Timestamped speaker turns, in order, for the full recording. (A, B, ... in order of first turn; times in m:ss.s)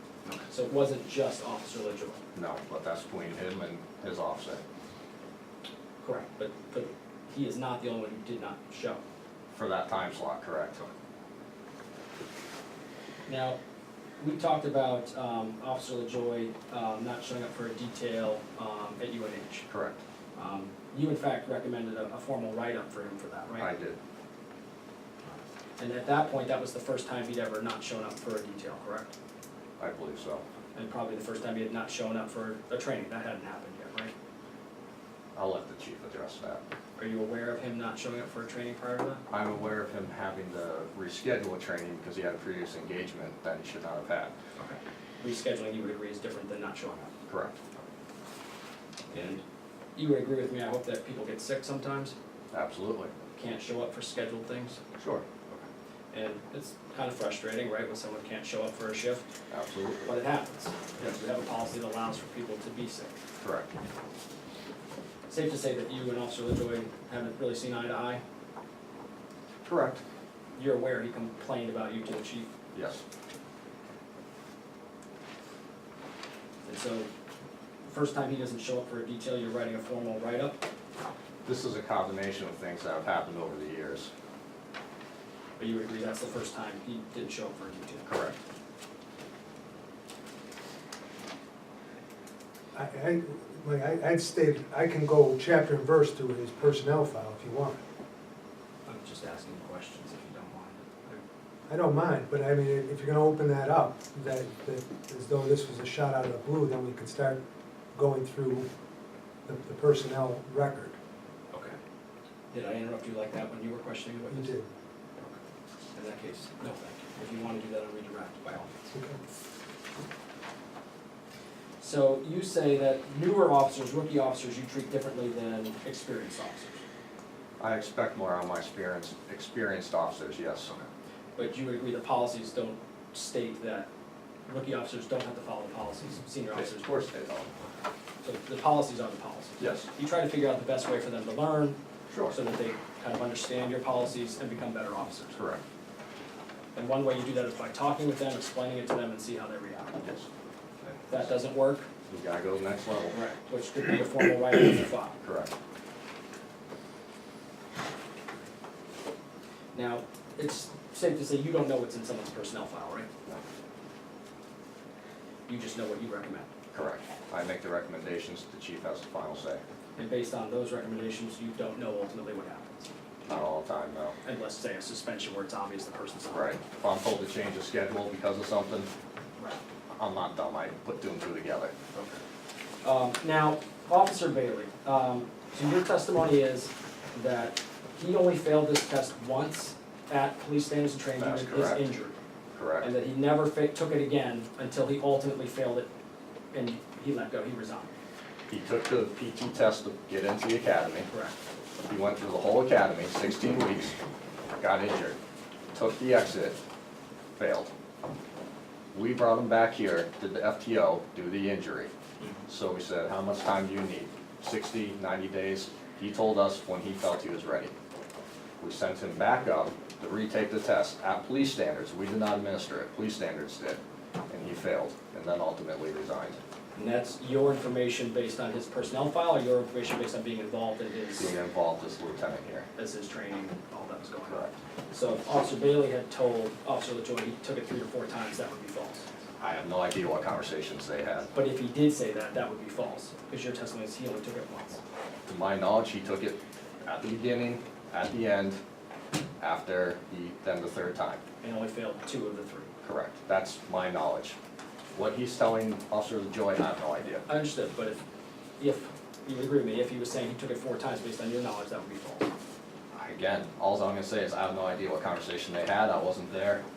0:00.2-0:02.2 A
0:02.3-0:04.6 B
0:06.0-0:09.0 A
0:09.5-0:10.8 B
0:13.3-0:13.6 A
0:14.2-0:19.6 A
0:19.7-0:20.0 B
0:20.4-0:23.7 A
0:23.6-0:24.0 B
0:25.8-0:29.1 A
0:29.8-0:30.4 B
0:30.7-0:34.1 A
0:35.3-0:36.6 B
0:37.0-0:39.2 A
0:39.3-0:44.3 B
0:44.6-0:47.1 A
0:47.3-0:47.6 B
0:49.1-0:49.4 A
0:50.0-0:52.1 A
0:52.5-0:53.1 B
0:53.4-0:54.8 A
0:55.0-0:55.2 B
0:56.1-0:59.2 A
0:59.5-1:00.1 B
1:00.0-1:03.2 A
1:03.4-1:03.7 B
1:05.3-1:08.2 A
1:09.6-1:10.0 B
1:10.5-1:12.5 A
1:12.7-1:13.0 B
1:16.6-1:17.1 A
1:17.8-1:20.6 A
1:21.4-1:24.1 B
1:25.6-1:28.1 A
1:28.0-1:28.4 B
1:32.7-1:37.8 C
1:38.8-1:41.2 A
1:41.7-1:47.4 C
1:47.9-1:48.7 C
1:49.4-1:51.0 C
1:51.5-1:51.8 A
1:52.5-1:54.5 A
1:54.3-1:54.7 C
1:55.9-1:58.9 A
1:58.9-1:59.2 C
2:01.8-2:06.8 A
2:07.6-2:10.9 B
2:11.4-2:13.9 A
2:14.5-2:16.8 A
2:16.5-2:17.5 B
2:18.2-2:21.8 A
2:19.6-2:19.9 B
2:22.1-2:22.4 B
2:22.3-2:25.4 A
2:25.3-2:25.6 B
2:26.7-2:30.0 A
2:30.0-2:30.2 B
2:31.1-2:31.9 A
2:32.1-2:33.2 B
2:33.1-2:35.2 A
2:35.2-2:35.5 B
2:39.7-2:43.1 A
2:45.5-2:46.5 A
2:46.7-2:49.6 B
2:50.0-2:52.8 A
2:53.3-2:54.1 B
2:54.2-2:56.5 A
2:56.3-2:58.9 B
3:00.0-3:01.7 B
3:01.9-3:02.2 A
3:02.8-3:12.1 A
3:11.2-3:11.9 B
3:12.5-3:12.9 B
3:12.8-3:15.9 A
3:16.5-3:17.9 A
3:18.5-3:21.1 B
3:21.1-3:21.4 A
3:21.9-3:24.0 B
3:24.6-3:25.2 B
3:25.7-3:26.6 B
3:27.4-3:27.7 B
3:28.9-3:31.9 B
3:32.5-3:37.7 B
3:38.6-3:46.4 B
3:46.7-3:51.3 A
3:51.2-3:52.7 B
3:52.8-3:59.1 A
3:54.3-3:54.5 B
3:59.4-4:01.3 B
4:01.3-4:04.8 A
4:05.3-4:08.6 B
4:09.4-4:11.2 B
4:11.4-4:12.7 A
4:12.8-4:14.4 B
4:14.9-4:17.2 B
4:17.3-4:18.0 A
4:18.6-4:22.3 A
4:22.9-4:26.6 B